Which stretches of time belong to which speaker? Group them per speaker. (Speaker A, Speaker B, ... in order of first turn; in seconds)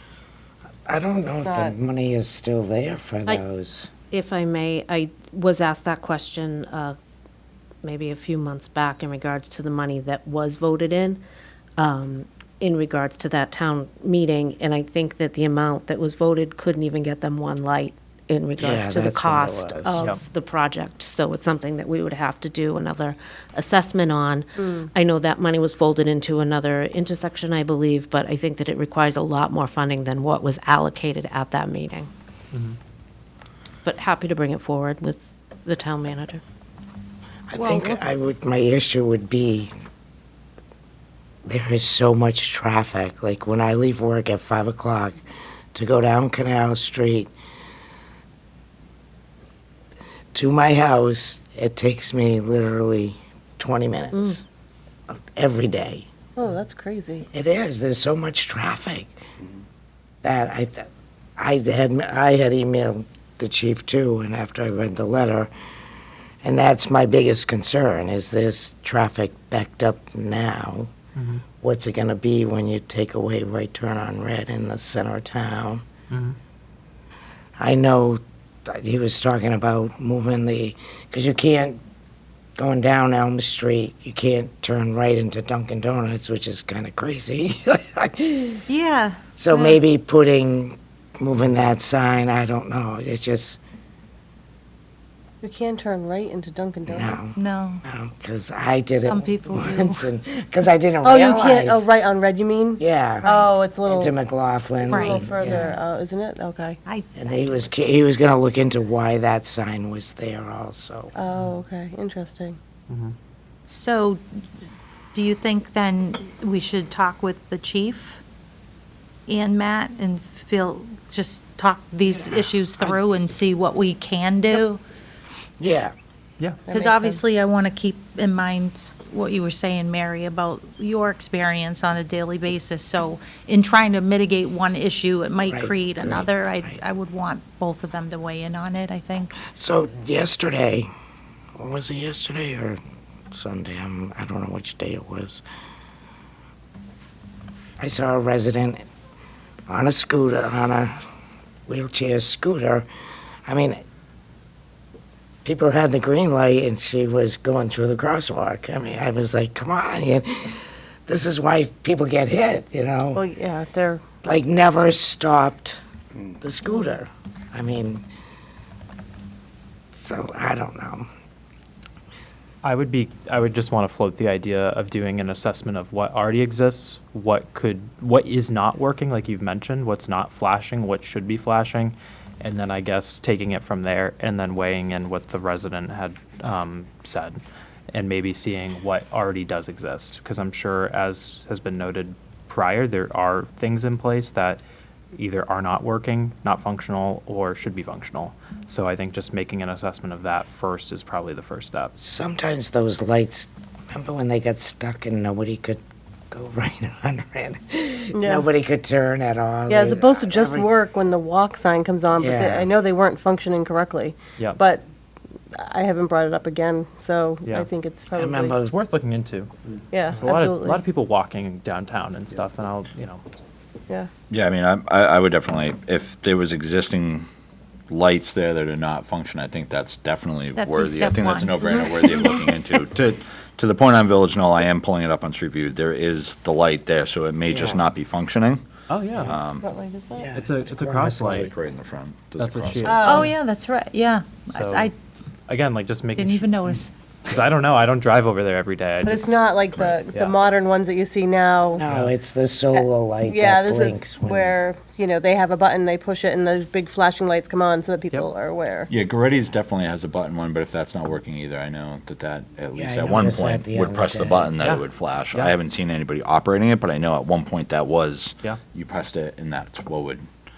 Speaker A: 0.9-3.9, 18.6-20.0, 37.5-39.7, 41.5-45.2, 45.7-47.3, 50.3-54.4, 55.1-56.1, 57.3-59.1, 60.2-60.9, 61.4-65.5, 66.4-70.9, 71.6-75.8, 77.6-81.8, 82.6-88.6, 89.4-93.6, 96.9-101.9, 102.8-103.3, 103.9-105.8, 107.2-111.1, 122.1-122.4, 125.6-125.9, 135.5-136.8, 139.4-140.9, 141.6-142.8, 143.3-145.4, 147.8-148.8, 149.7-150.9, 151.7-152.8, 153.5-153.8, 155.4-163.2, 164.2-165.8, 166.4-168.0, 169.9-171.1, 202.0-205.8, 206.3-210.7, 212.1-212.7, 218.1-218.8, 237.5-237.8, 240.2-241.4, 251.7-254.5, 262.7-264.6
Speaker B: 1.4-1.7, 24.6-24.9, 56.4-57.3, 95.4-97.2, 101.0-104.1, 104.8-106.8, 111.1-112.6, 126.7-127.2, 163.1-164.0, 208.1-208.4, 209.7-214.8, 215.5-218.6, 219.9-220.8, 239.6-240.3, 242.8-243.3, 249.0-251.8, 252.7-258.9
Speaker C: 4.1-7.0, 7.8-11.2, 11.8-32.1, 33.8-36.4
Speaker D: 37.5-38.0, 88.7-89.8, 97.3-97.8, 99.0-100.1, 103.2-103.5, 104.9-105.2, 106.8-107.7, 113.7-114.2, 115.1-118.2, 119.3-124.8, 126.7-139.4, 230.6-232.4, 243.0-244.9, 246.1-246.9
Speaker E: 71.2-71.4, 76.1-76.4, 112.9-113.2, 172.6-194.6, 195.1-201.9, 217.4-217.7, 218.7-219.5, 220.2-223.2, 238.9-239.3, 240.3-241.5, 242.4-243.4, 244.4-244.9, 245.5-249.4, 250.1-250.4, 251.8-252.2, 264.6-265.5
Speaker F: 224.3-227.2, 227.9-238.6, 239.2-239.7, 241.3-243.2, 258.9-270.2